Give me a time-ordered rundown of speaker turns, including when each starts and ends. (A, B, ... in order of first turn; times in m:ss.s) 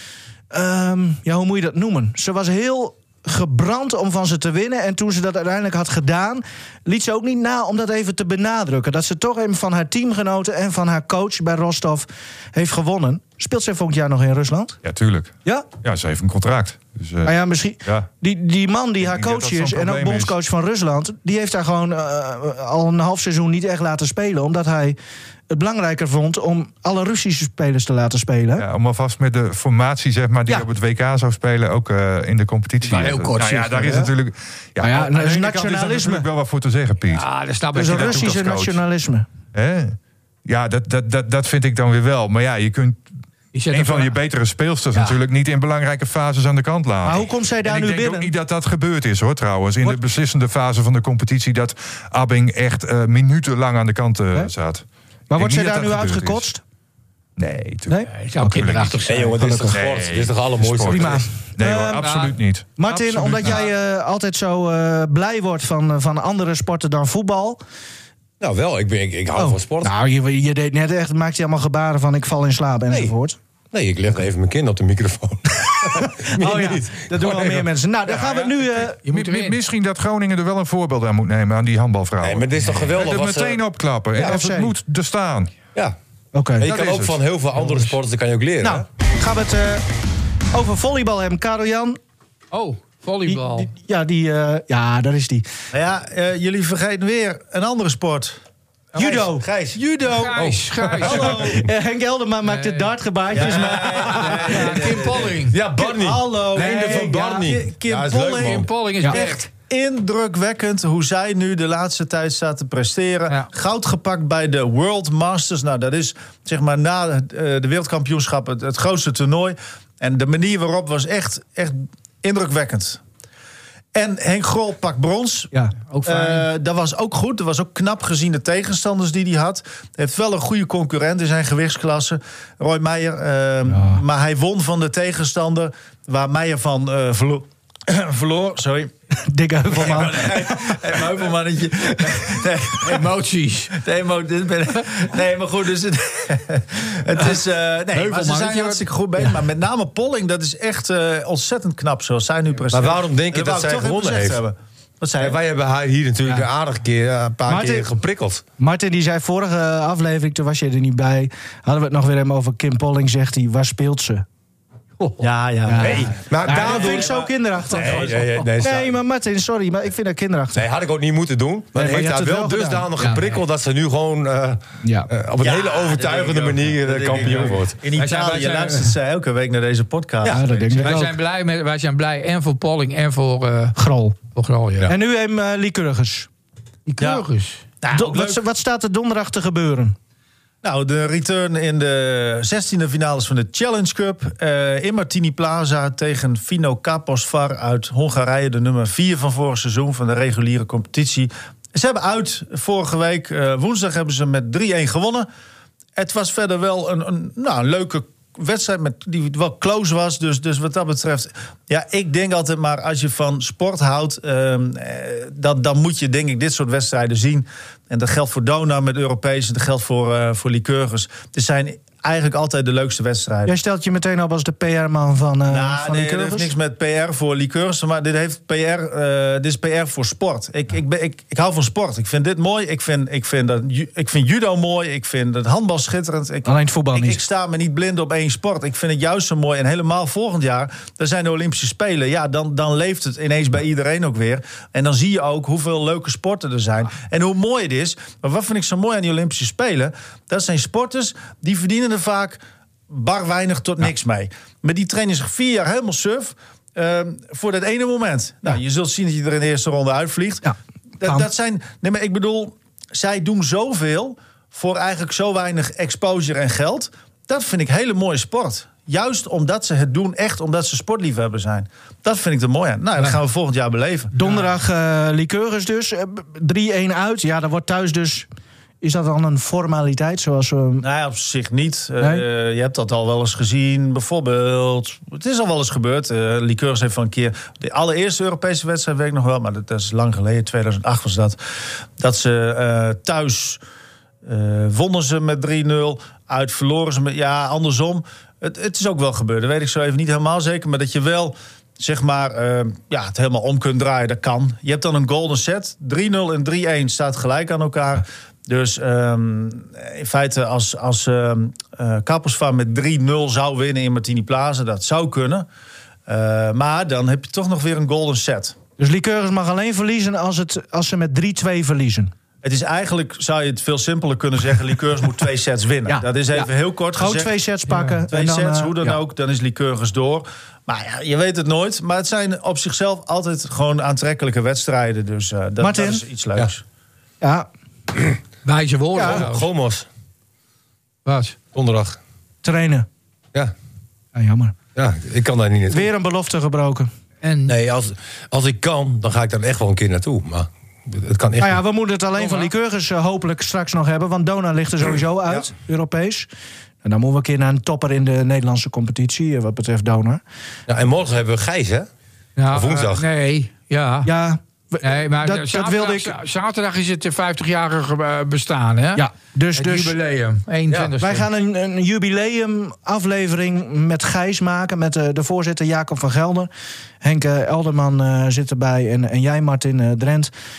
0:00.5-0:14.8 A
0:14.8-0:18.1 B
0:17.2-0:25.0 A
0:19.0-0:20.4 B
0:25.5-0:28.7 A
0:28.6-0:38.8 B
0:32.8-0:34.1 C
0:34.8-0:36.3 A
0:37.1-0:38.4 C
0:37.8-0:39.3 A
0:39.5-0:43.0 B
0:43.5-0:44.2 C
0:43.7-0:56.5 B
0:47.0-0:48.3 A
0:55.3-0:56.6 A
0:57.4-0:59.0 B
0:57.9-0:59.8 A
0:58.1-0:59.4 C
0:59.1-1:01.2 D
0:59.7-1:03.7 B
1:00.8-1:02.1 A
1:02.0-1:02.4 C
1:02.8-1:07.6 A
1:08.4-1:09.9 D
1:09.4-1:13.4 A
1:12.9-1:13.2 D
1:13.7-1:17.7 D
1:16.0-1:19.0 A
1:18.1-1:25.6 B
1:19.0-1:19.6 C
1:22.2-1:23.6 D
1:24.2-1:24.7 A
1:26.3-1:26.7 A
1:26.6-1:27.2 B
1:26.6-1:28.8 D
1:27.6-1:27.9 A
1:28.6-1:29.8 A
1:30.5-1:32.0 A
1:32.5-1:33.7 C
1:33.3-1:35.5 A
1:35.7-1:38.4 E
1:39.0-1:39.5 A
1:39.0-1:40.4 E
1:40.0-1:41.4 C
1:40.9-1:41.7 E
1:41.0-1:44.8 A
1:42.4-1:42.9 C
1:43.3-2:03.0 E
1:43.8-1:45.6 C
1:45.5-1:48.7 D
1:46.5-1:47.4 A
1:48.1-1:48.4 A
1:48.4-1:49.5 C
2:03.9-2:18.9 E
2:05.9-2:06.5 C
2:13.7-2:14.0 A
2:19.3-2:21.1 A
2:19.7-2:23.1 E
2:22.0-2:22.4 A
2:22.8-2:23.8 C
2:23.7-2:35.4 E
2:27.9-2:28.8 C
2:32.7-2:34.4 D
2:35.2-2:38.4 D
2:37.5-2:37.9 A
2:38.6-2:44.2 A
2:45.2-2:48.4 E
2:45.7-2:50.6 A
2:45.8-2:47.2 D
2:47.7-2:49.0 D
2:50.6-2:57.8 D
2:51.8-2:52.9 A
2:53.0-2:53.3 C
2:54.8-2:55.1 A
2:55.4-3:01.0 E
2:57.9-2:59.0 C
3:00.3-3:01.1 A
3:00.8-3:03.8 C
3:03.8-3:04.2 A
3:04.3-3:05.0 C
3:04.9-3:06.3 A
3:06.9-3:07.6 C
3:07.0-3:07.2 E
3:07.8-3:08.4 E
3:07.9-3:10.0 A
3:10.6-3:25.3 E
3:26.0-3:43.6 E
3:43.5-3:46.5 A
3:45.5-4:20.5 E
3:56.4-3:57.2 A
4:20.4-4:21.3 A
4:21.0-4:34.1 E
4:34.1-4:38.3 A
4:38.8-4:40.8 A
4:40.8-4:51.4 E
4:52.0-4:53.6 E
4:54.2-5:15.5 E
5:16.1-5:18.6 E
5:18.8-5:22.1 A
5:22.4-5:27.3 E
5:25.9-5:29.0 A
5:27.7-5:28.0 C
5:28.1-5:36.6 E
5:35.6-5:36.0 A
5:37.2-5:37.5 A
5:38.4-5:39.5 C
5:39.0-5:39.2 A
5:39.0-5:39.9 D
5:41.0-5:41.4 C
5:41.5-5:42.0 D
5:42.4-5:42.9 A
5:44.2-5:44.6 A
5:44.8-5:45.9 D
5:45.7-5:46.9 A
5:47.2-5:47.6 C
5:47.5-5:51.6 D
5:51.4-5:56.3 A
5:52.2-5:52.5 C
5:56.8-6:00.2 A
6:00.7-6:01.9 D
6:02.4-6:04.1 C
6:02.5-6:03.1 D
6:04.0-6:06.2 A
6:04.8-6:11.3 C
6:09.0-6:10.0 A
6:11.0-6:16.5 A
6:17.0-6:20.3 A